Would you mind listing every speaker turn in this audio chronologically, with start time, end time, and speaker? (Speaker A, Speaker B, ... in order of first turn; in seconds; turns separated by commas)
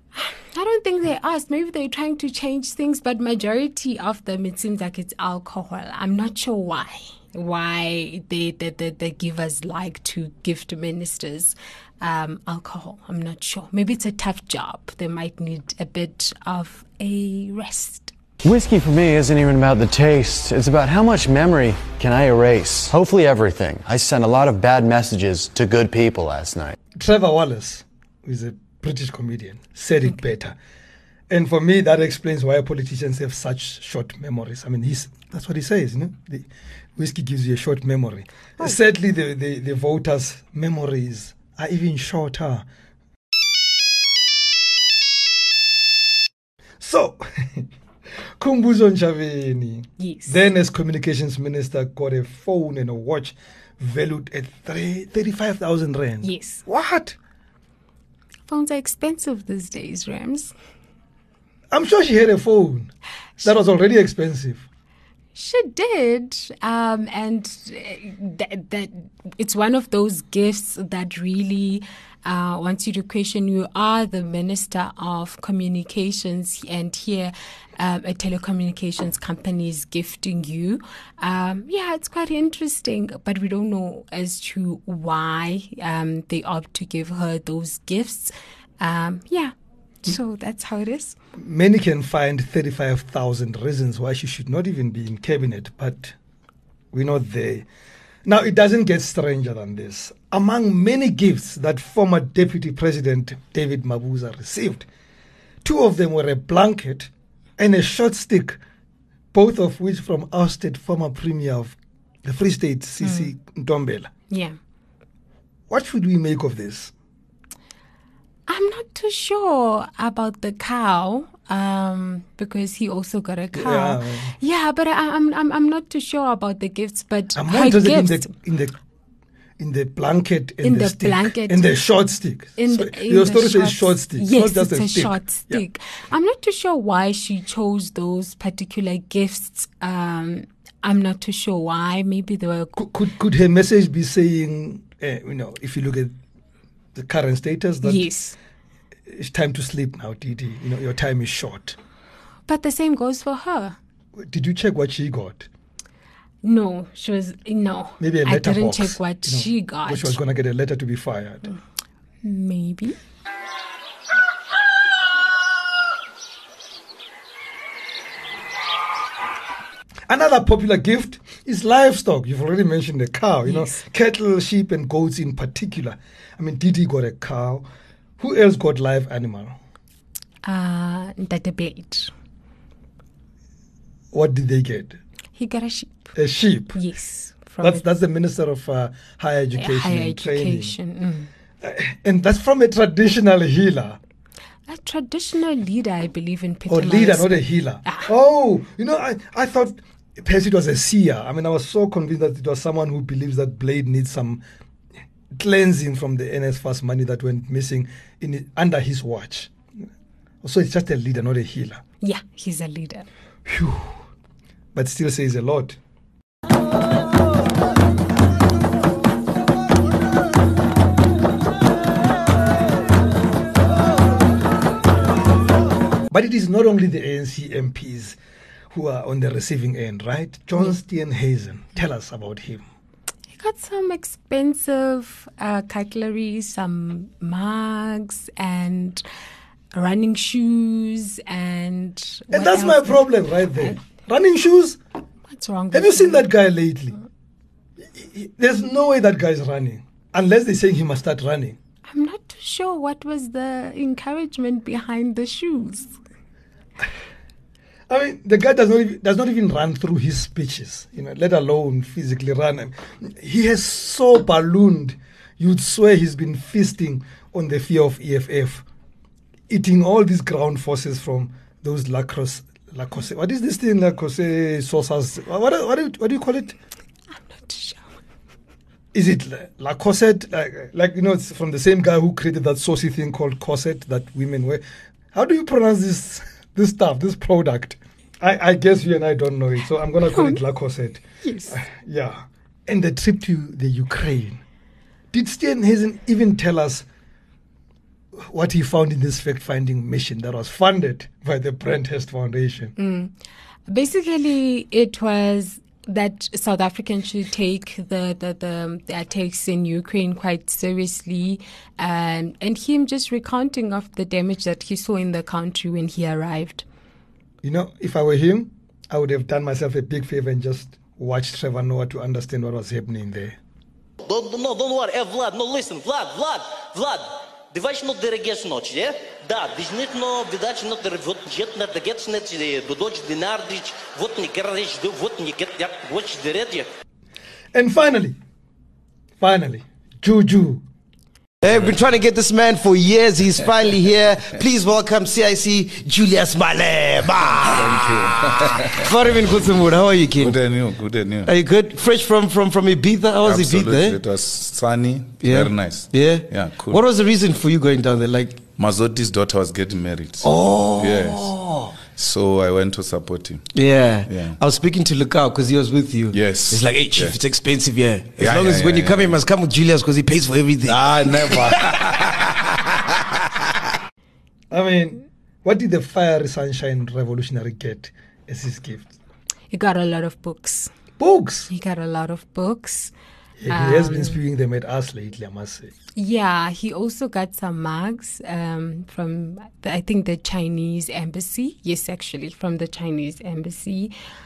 Speaker A: 0.1-18.1, Speaker B: 18.4-26.8, Speaker C: 27.0-30.6, Speaker C: 31.3-42.7, Speaker C: 46.8-47.7, Speaker C: 48.4-57.2, Speaker A: 50.0-50.4, Speaker A: 56.2-56.6, Speaker A: 58.5-60.5, Speaker C: 61.7-62.9, Speaker C: 63.4-64.7, Speaker A: 65.3-91.2, Speaker C: 91.4-96.2, Speaker C: 96.9-97.7, Speaker C: 98.3-104.9, Speaker C: 105.6-108.6, Speaker C: 109.3-114.1, Speaker A: 113.0-113.3, Speaker A: 114.3-114.6, Speaker C: 115.7-116.9, Speaker A: 118.5-128.3, Speaker C: 123.5-124.3, Speaker C: 127.3-128.7, Speaker C: 129.6-135.6, Speaker A: 130.6-131.7, Speaker A: 132.6-142.8, Speaker C: 142.8-146.1, Speaker C: 146.9-148.1, Speaker A: 147.8-148.3, Speaker C: 149.1-151.8, Speaker A: 152.5-153.8, Speaker C: 154.2-155.5, Speaker A: 156.4-160.2, Speaker C: 158.0-161.6, Speaker A: 162.2-162.9, Speaker C: 170.1-177.7, Speaker A: 173.4-173.8, Speaker C: 178.2-179.6, Speaker A: 180.4-182.1, Speaker C: 184.1-185.0, Speaker A: 185.3-186.1, Speaker C: 186.2-186.8, Speaker A: 186.7-187.8, Speaker C: 187.6-190.8, Speaker A: 189.6-191.3, Speaker C: 191.6-194.0, Speaker A: 194.7-198.1, Speaker C: 196.7-204.4, Speaker C: 205.3-209.5, Speaker C: 210.4-211.8, Speaker A: 212.0-213.1, Speaker C: 213.5-214.0, Speaker C: 214.8-215.8, Speaker C: 226.1-228.2, Speaker C: 228.7-232.6, Speaker A: 233.3-239.0, Speaker A: 239.7-243.1, Speaker C: 242.3-244.8, Speaker A: 245.3-246.3, Speaker C: 245.7-246.9, Speaker C: 247.8-251.6, Speaker A: 251.9-256.0, Speaker C: 257.9-268.6, Speaker C: 269.5-276.6, Speaker A: 277.1-278.0, Speaker C: 278.9-294.4, Speaker A: 290.1-290.4, Speaker A: 291.2-291.6, Speaker C: 295.1-296.9, Speaker C: 298.3-302.7, Speaker A: 302.8-303.1, Speaker A: 303.7-316.6, Speaker C: 317.4-323.4, Speaker D: 324.0-336.7, Speaker C: 337.5-338.2, Speaker C: 339.2-340.6, Speaker E: 341.4-348.1, Speaker F: 341.5-341.8, Speaker F: 347.3-351.4, Speaker E: 348.8-350.3, Speaker E: 351.2-353.9, Speaker F: 353.2-356.9, Speaker E: 355.2-358.4, Speaker F: 358.5-364.4, Speaker E: 360.2-361.7, Speaker E: 363.5-371.5, Speaker F: 366.1-367.2, Speaker F: 368.2-369.3, Speaker F: 370.6-372.3, Speaker C: 374.5-378.9, Speaker A: 379.5-380.7, Speaker C: 381.0-381.5, Speaker A: 381.5-382.9, Speaker C: 383.4-385.7, Speaker A: 383.5-384.2, Speaker A: 385.9-393.9